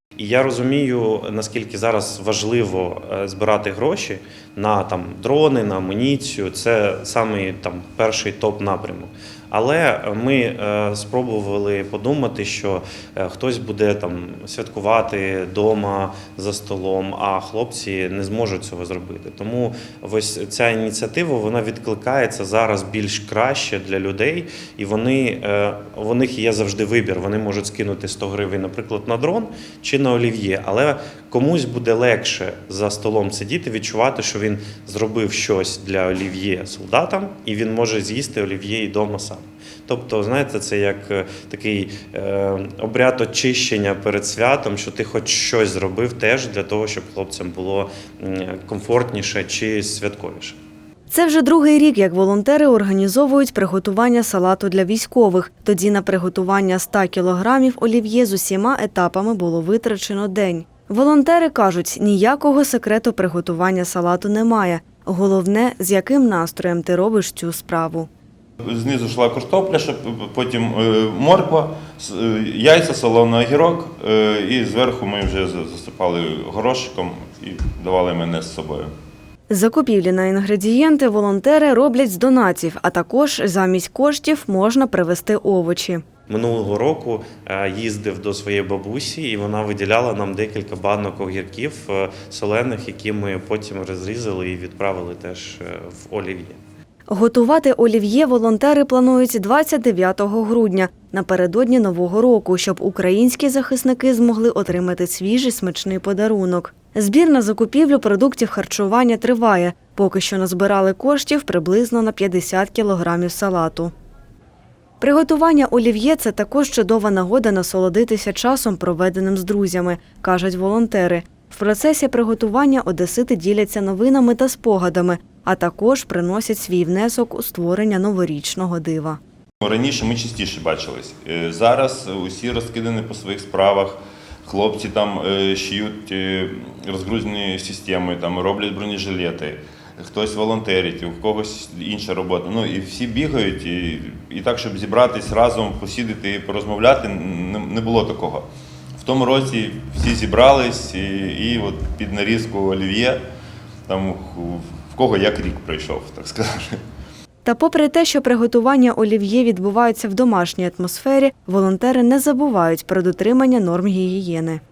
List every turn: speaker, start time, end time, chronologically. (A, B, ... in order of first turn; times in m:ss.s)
0:00.2-0:50.6 A
0:51.1-1:08.1 B
1:08.6-1:18.9 C
1:19.5-1:26.0 B
1:26.3-1:36.6 A
1:37.1-1:53.9 B
1:55.0-2:09.2 B
2:09.6-2:33.2 C
2:33.9-2:36.8 C
2:37.4-2:44.6 B